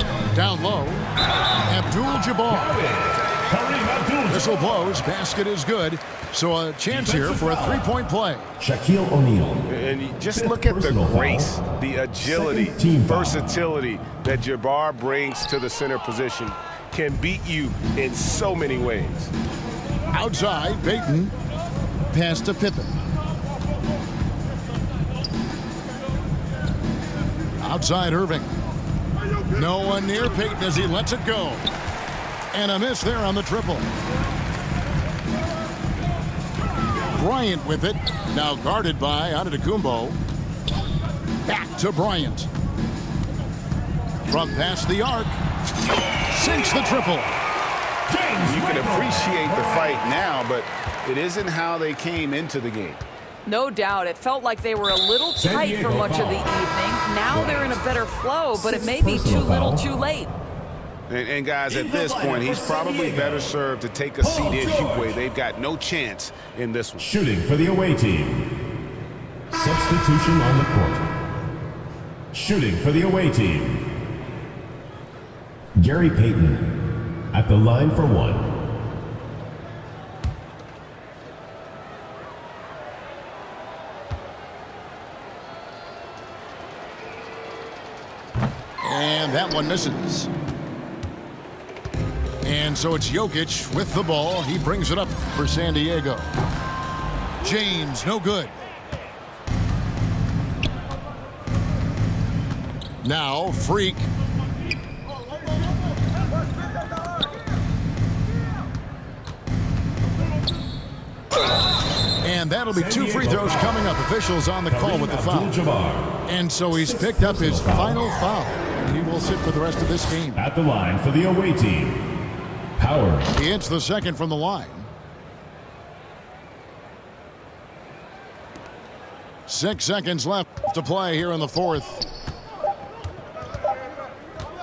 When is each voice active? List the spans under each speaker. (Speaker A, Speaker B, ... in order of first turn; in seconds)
Speaker A: 0.3-1.1, 1.6-2.8, 4.3-8.5, 20.1-21.3, 22.1-22.9, 27.6-28.5, 29.5-31.6, 32.5-33.9, 37.1-40.2, 41.5-42.5, 44.3-45.4, 46.3-47.3, 88.8-90.3, 92.4-96.3, 97.4-98.5, 103.0-104.0, 112.2-115.5, 116.3-120.4, 123.3-124.9, 129.5-132.0
Speaker B: 2.5-5.0, 6.9-7.9, 8.6-9.6, 10.3-11.5, 12.2-13.4, 48.1-50.0, 55.4-56.6, 57.3-57.8, 58.5-59.8, 61.7-63.5, 64.2-65.2, 67.0-68.5, 69.5-71.0, 72.3-73.9, 75.8-76.7, 77.3-78.5, 112.7-113.9, 114.7-116.2, 116.7-118.0, 120.4-122.1, 122.8-123.3
Speaker C: 9.7-19.3, 48.4-53.0, 61.1-67.0
Speaker D: 53.5-60.3